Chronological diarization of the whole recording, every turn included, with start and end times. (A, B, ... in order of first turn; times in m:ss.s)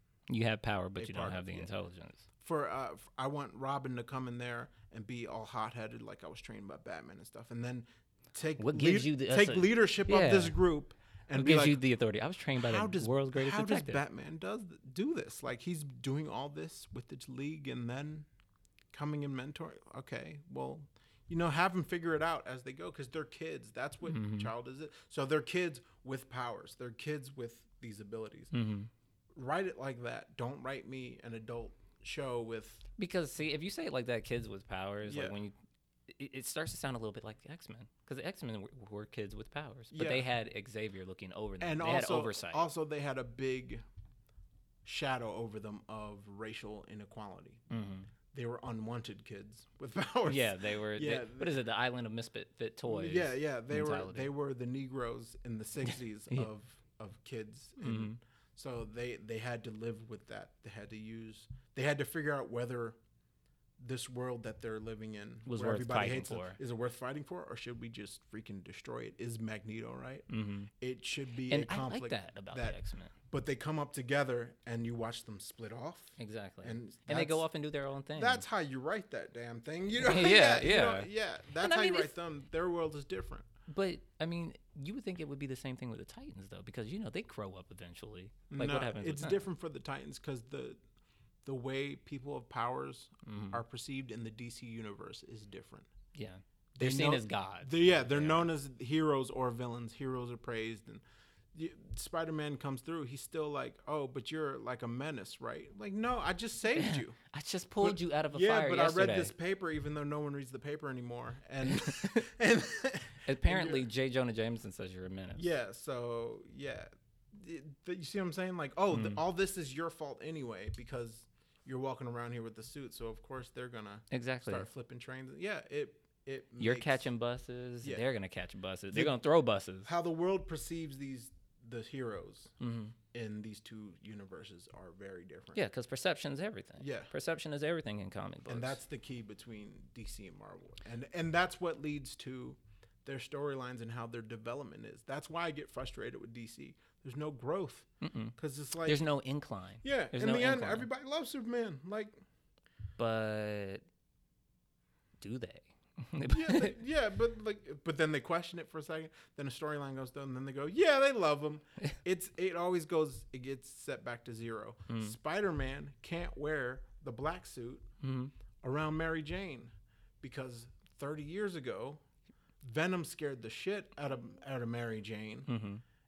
0:00.3-0:02.3 A
0:01.0-0:01.7 B
0:02.4-0:11.8 B
0:08.6-0:10.6 A
0:11.4-0:14.0 A
0:12.6-0:18.3 B
0:18.9-0:28.5 B
0:24.0-0:24.5 A
0:28.5-0:28.9 A
0:29.3-0:32.8 B
0:33.0-0:35.5 A
0:35.0-0:35.4 B
0:36.1-0:42.6 A
0:39.9-0:40.3 B
0:41.6-0:43.8 B
0:44.8-0:47.7 B
0:47.7-0:48.1 A
0:48.3-0:51.5 B
0:50.3-0:54.3 A
0:52.9-1:03.0 B
0:57.8-0:58.2 A
1:03.8-1:10.3 B
1:05.5-1:06.6 A
1:10.3-1:10.7 A
1:10.8-1:12.8 B
1:11.5-1:13.1 A
1:13.3-1:17.5 B
1:16.2-1:18.4 A
1:18.2-1:23.5 B
1:20.0-1:22.1 A
1:23.7-1:29.4 A
1:28.5-1:30.8 B
1:31.4-1:35.9 B
1:33.2-1:33.6 A
1:36.2-1:38.5 A
1:36.8-1:41.0 B
1:41.5-1:47.2 B
1:46.8-1:49.3 A
1:47.8-1:53.9 B
1:51.8-1:52.2 A
1:53.2-1:55.5 A
1:55.4-2:07.1 B
1:58.9-1:59.2 A
2:04.1-2:04.7 A
2:06.6-2:09.9 A
2:09.8-2:12.6 B
2:12.6-2:13.0 A
2:13.1-2:15.6 B
2:15.6-2:18.8 A
2:16.8-2:17.1 B
2:18.5-2:29.0 B
2:28.0-2:30.9 A
2:29.8-2:32.2 B
2:33.0-2:33.8 A
2:35.2-2:36.8 A
2:36.3-2:47.9 B
2:44.9-2:45.2 A
2:48.0-2:48.3 A
2:48.6-2:52.0 B
2:52.6-2:55.5 B
2:55.5-2:55.8 A